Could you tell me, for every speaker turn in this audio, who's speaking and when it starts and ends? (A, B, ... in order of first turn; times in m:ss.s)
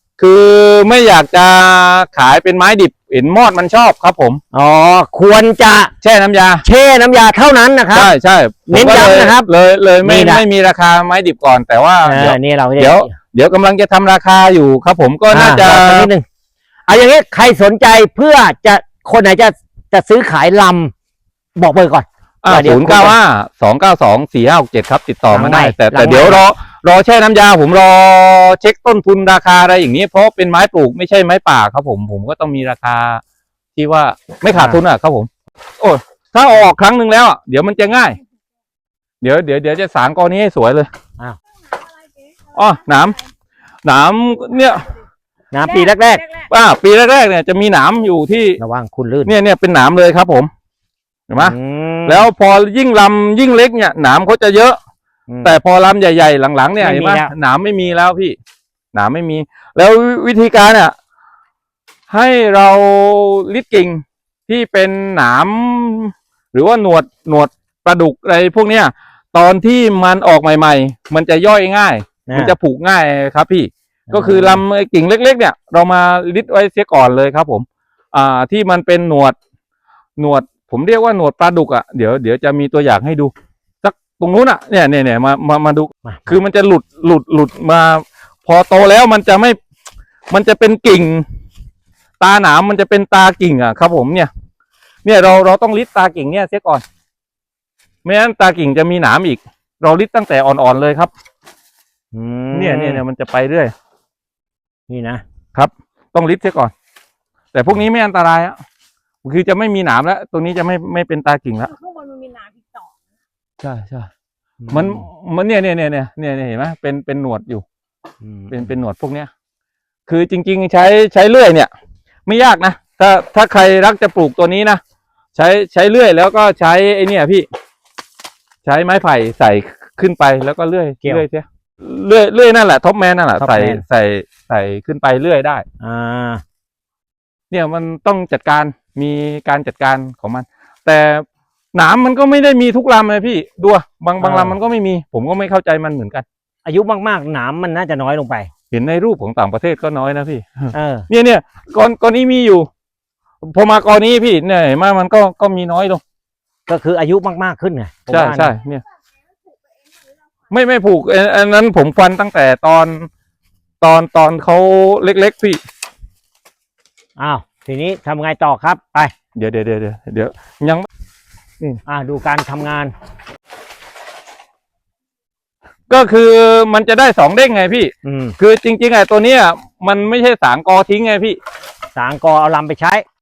0:00.2-0:04.4 A
0:04.5-0:05.9 B
0:06.0-0:06.6 A
0:06.6-0:08.1 B
0:07.9-0:16.1 A
0:08.7-0:09.5 B
0:10.0-0:10.4 B
0:12.0-0:13.1 B
0:15.3-0:16.2 B
0:16.9-0:20.9 B
0:21.6-0:23.2 B
0:22.4-0:33.2 A
0:25.3-0:26.4 B
0:33.8-0:35.3 A
0:34.5-0:34.8 B
0:35.8-0:38.2 A
0:39.2-0:40.9 A
0:41.7-0:43.0 C
0:42.5-0:43.2 A
0:43.8-0:44.9 A
0:45.5-0:46.2 B
0:45.7-0:46.4 C
0:46.5-0:48.6 A
0:48.6-0:49.3 B
0:49.2-0:50.5 A
0:51.3-0:54.8 A
0:51.4-0:52.3 B
0:55.3-0:55.6 B
0:55.4-0:58.4 A
0:56.8-0:57.3 B
0:58.9-1:00.9 A
1:02.1-1:19.4 A
1:12.3-1:12.5 B
1:14.1-1:14.6 B
1:20.2-1:23.3 A
1:23.8-1:29.6 A
1:30.3-1:31.2 A
1:32.2-1:34.3 A
1:35.0-1:36.8 A
1:38.0-1:41.1 A
1:42.1-1:43.0 B
1:42.5-1:43.7 A
1:44.9-1:45.2 B
1:45.5-1:46.7 A
1:47.5-1:48.6 A
1:49.2-1:51.7 A
1:51.7-1:52.9 C
1:53.6-1:54.1 A
1:54.6-1:55.0 B
1:54.7-1:57.6 A
1:58.2-1:58.6 B
1:58.5-1:59.3 A
2:00.1-2:01.7 A
2:02.2-2:04.8 A
2:05.3-2:07.5 A
2:08.6-2:15.6 A
2:13.4-2:13.8 B
2:15.8-2:16.4 B
2:17.5-2:26.2 A
2:24.2-2:24.6 B
2:26.6-2:28.5 B
2:28.7-2:32.7 A
2:30.7-2:31.1 B
2:33.4-2:36.0 A
2:36.7-2:38.5 B
2:38.1-2:38.8 A
2:39.4-2:40.2 C
2:40.5-2:43.1 A
2:43.8-2:45.6 A
2:47.2-2:49.1 B
2:49.3-2:50.8 A
2:51.8-2:52.9 B
2:55.9-3:01.4 A
2:58.0-2:58.4 B
3:01.9-3:03.0 B